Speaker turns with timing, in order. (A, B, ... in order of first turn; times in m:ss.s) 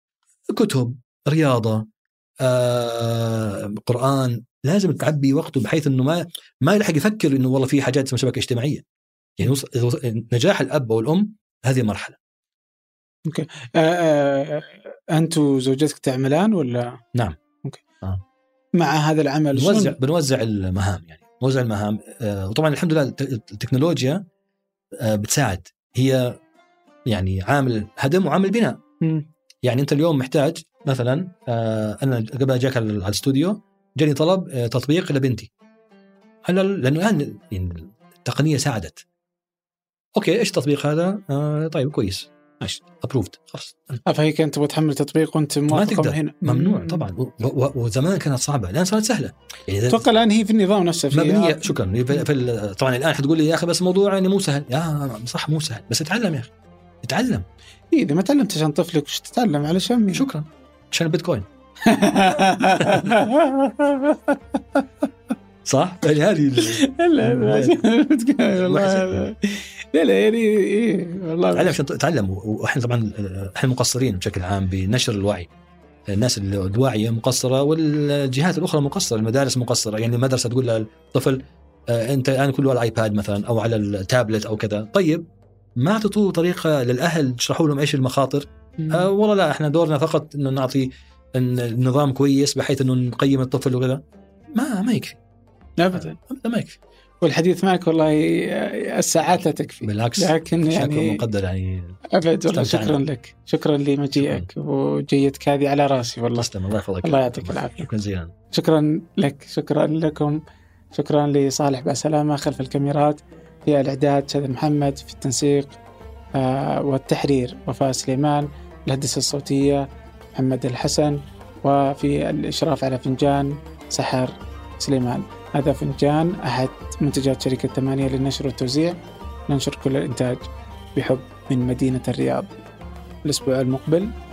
0:00.5-0:01.8 A
0:02.4-0:08.8 A
0:09.4-0:12.2 A
0:13.2-0:17.0 B
0:18.8-0:20.0 B
0:19.5-0:24.2 A
0:25.0-0:26.4 A
0:27.1-0:28.8 A
0:29.0-0:29.2 B
0:29.6-0:35.5 A
0:36.4-0:39.0 A
0:40.2-0:44.0 A
0:44.0-0:47.0 B
0:45.7-0:50.0 A
0:49.9-0:51.6 B
0:51.1-0:57.4 A
0:57.9-1:00.3 B
1:00.1-1:01.4 A
1:01.8-1:04.8 B
1:05.6-1:07.8 A
1:06.6-1:11.8 B
1:08.5-1:09.3 A
1:11.5-1:15.5 A
1:16.1-1:25.2 A
1:25.8-1:34.0 A
1:28.8-1:29.1 B
1:34.5-1:35.2 A
1:35.8-1:36.2 B
1:35.9-1:36.8 A
1:37.2-1:41.2 B
1:39.8-1:42.0 A
1:42.1-1:46.5 B
1:42.5-1:43.0 A
1:44.2-1:44.5 A
1:46.3-1:48.3 A
1:47.0-1:47.9 B
1:48.5-1:50.4 B
1:50.9-1:55.8 B
1:56.3-2:09.0 B
2:09.5-2:10.4 B
2:10.9-2:12.5 B
2:13.2-2:14.1 B